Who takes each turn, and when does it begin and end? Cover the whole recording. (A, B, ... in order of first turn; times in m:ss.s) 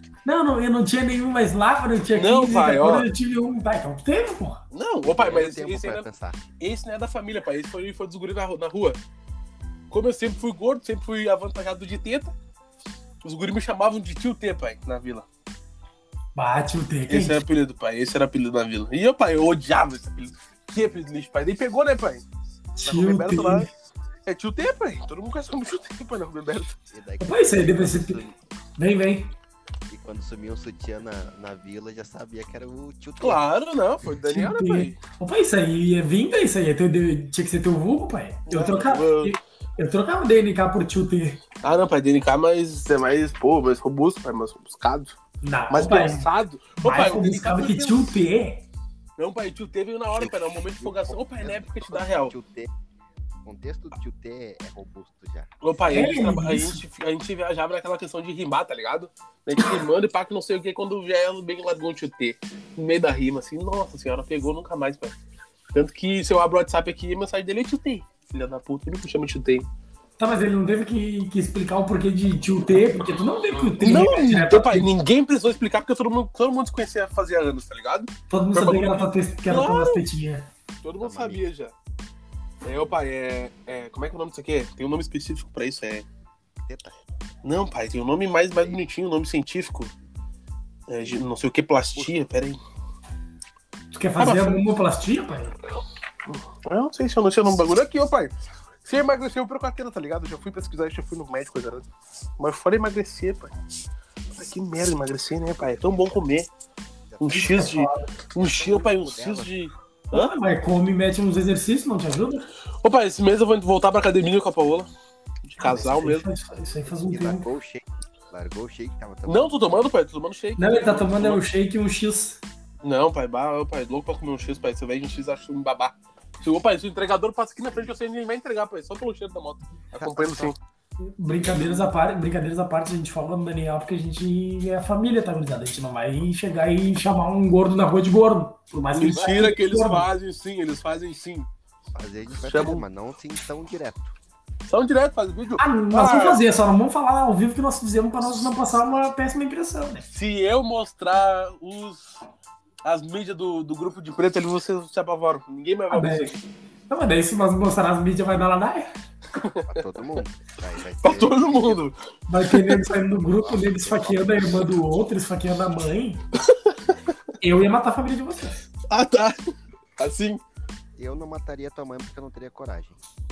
0:00.2-0:04.6 A
0:02.1-0:03.1 B
0:04.7-0:06.0 B
0:05.1-0:06.4 C
0:06.6-0:09.0 B
0:09.9-0:12.3 B
0:13.2-0:15.2 B
0:16.4-0:17.4 A
0:17.1-0:22.2 B
0:22.8-0:23.7 A
0:22.8-0:23.7 B
0:24.2-0:26.8 B
0:26.9-0:28.4 C
0:27.2-0:28.2 A
0:28.8-0:29.3 A
0:29.9-0:33.4 C
0:33.2-0:35.0 B
0:34.2-0:41.4 A
0:38.5-0:39.3 B
0:41.6-0:45.2 B
0:45.4-0:46.3 A
0:45.7-0:48.2 B
0:46.8-0:48.6 A
0:49.2-0:52.3 B
0:50.1-0:52.7 C
0:53.4-0:55.5 C
0:55.6-1:05.1 B
0:55.9-0:56.8 A
1:05.7-1:09.7 B
1:10.2-1:14.9 A
1:13.6-1:20.0 B
1:18.3-1:20.5 A
1:20.8-1:21.7 B
1:21.0-1:21.4 C
1:22.6-1:26.0 B
1:26.6-1:26.9 C
1:27.4-1:29.9 B
1:30.9-1:32.6 B
1:33.9-1:35.6 A
1:34.2-1:34.6 B
1:36.3-1:41.9 B
1:42.4-1:43.5 B
1:44.4-1:46.5 B
1:47.1-1:47.8 C
1:47.2-1:50.3 B
1:47.3-1:48.1 A
1:48.4-1:49.6 C
1:50.1-1:52.5 A
1:52.8-1:54.9 B
1:55.4-1:56.2 B
1:55.6-1:57.5 A
1:56.8-1:59.8 C
1:59.2-2:01.4 B
2:00.6-2:02.4 A
2:02.8-2:10.6 B
2:09.9-2:10.6 C
2:11.2-2:20.1 A
2:18.9-2:21.5 B
2:21.9-2:24.1 C
2:22.4-2:22.8 B
2:24.7-2:26.4 B
2:25.6-2:30.1 A
2:30.1-2:32.2 B
2:32.8-2:36.4 B
2:35.9-2:36.3 A
2:36.9-2:38.9 A
2:39.3-2:39.7 B
2:39.6-2:41.8 C
2:41.0-2:42.0 B
2:42.3-2:46.2 A
2:42.5-2:42.8 B
2:43.4-2:44.3 C
2:47.4-2:48.6 A
2:48.9-2:49.4 B
2:50.0-2:50.4 B
2:51.0-2:53.0 C